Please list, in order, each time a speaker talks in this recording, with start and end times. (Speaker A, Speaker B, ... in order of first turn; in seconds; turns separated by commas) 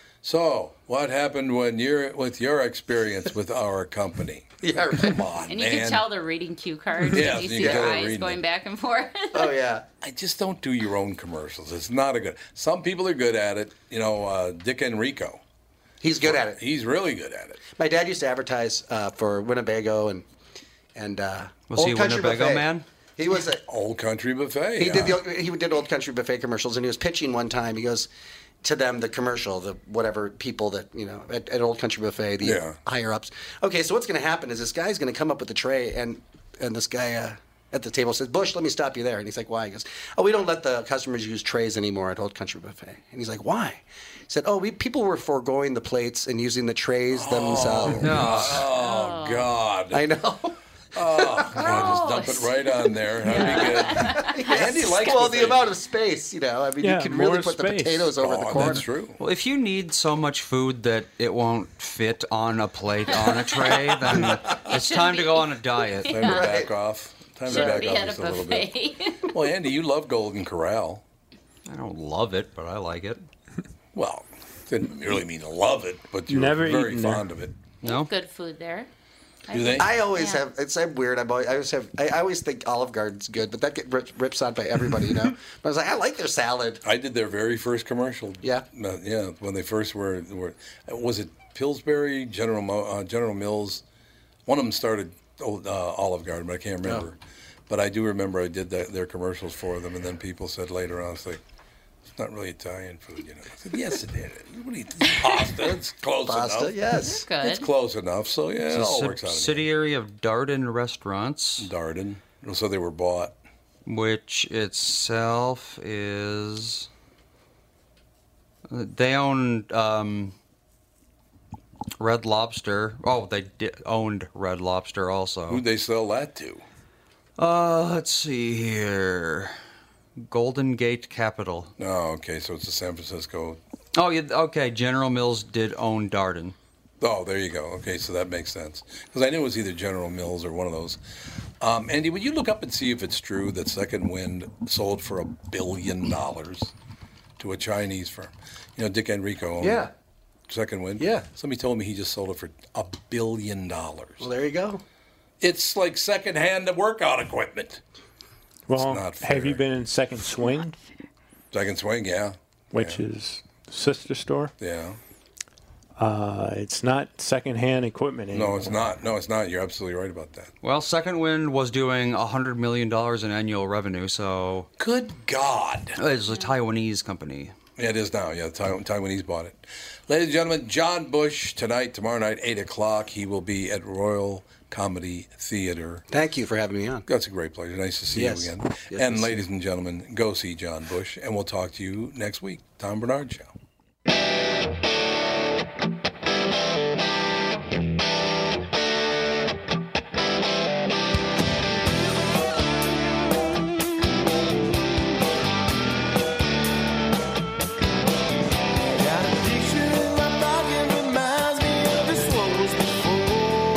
Speaker A: 0.2-6.0, Speaker B: 4.6-5.2, Speaker C: 5.5-9.6, Speaker A: 7.1-8.4, Speaker B: 7.6-8.0, Speaker B: 9.3-9.9, Speaker A: 10.0-15.4, Speaker B: 16.0-16.6, Speaker A: 16.2-17.6, Speaker B: 17.8-20.3, Speaker B: 20.9-23.6, Speaker D: 21.7-22.9, Speaker A: 23.7-25.2, Speaker B: 24.8-28.1, Speaker B: 28.6-48.6, Speaker A: 32.4-32.8, Speaker A: 47.1-50.0, Speaker D: 47.9-48.6, Speaker C: 48.7-49.5, Speaker B: 49.9-51.8, Speaker A: 51.0-55.7, Speaker C: 51.5-54.7, Speaker B: 53.3-58.8, Speaker E: 56.8-58.8, Speaker A: 58.2-59.2, Speaker D: 59.2-66.2, Speaker C: 64.5-66.6, Speaker A: 66.0-68.7, Speaker B: 66.2-66.7, Speaker C: 67.5-69.3, Speaker B: 67.5-67.8, Speaker A: 69.3-71.0, Speaker D: 71.7-73.2, Speaker A: 73.9-77.5, Speaker E: 76.3-77.3, Speaker D: 77.8-78.1, Speaker C: 77.8-78.9, Speaker C: 79.5-80.4, Speaker A: 79.5-79.9, Speaker B: 79.8-86.8, Speaker A: 86.8-93.8, Speaker A: 94.5-97.2, Speaker A: 97.7-101.4, Speaker A: 102.2-106.8, Speaker B: 106.2-107.2, Speaker C: 107.0-107.7, Speaker A: 107.4-109.7, Speaker D: 108.7-111.7, Speaker A: 111.6-113.3, Speaker D: 113.9-116.9, Speaker D: 118.7-120.3, Speaker D: 122.0-125.6, Speaker A: 125.5-126.7, Speaker D: 127.4-129.6, Speaker D: 130.2-131.7, Speaker A: 131.8-133.6, Speaker D: 133.9-136.6, Speaker A: 137.0-141.0, Speaker A: 141.6-146.7, Speaker A: 147.4-149.9, Speaker B: 149.6-149.9, Speaker A: 150.5-154.3, Speaker B: 151.0-151.3, Speaker B: 154.2-154.8, Speaker A: 155.4-157.8, Speaker E: 158.7-160.8, Speaker A: 158.8-159.7, Speaker A: 161.5-163.0, Speaker E: 162.7-164.5, Speaker A: 164.6-165.0, Speaker E: 166.0-168.8, Speaker A: 168.3-170.5, Speaker D: 170.6-174.7, Speaker A: 174.8-176.0, Speaker D: 176.0-177.5, Speaker A: 177.8-186.0, Speaker B: 186.1-187.1, Speaker A: 187.1-193.6, Speaker B: 188.1-189.4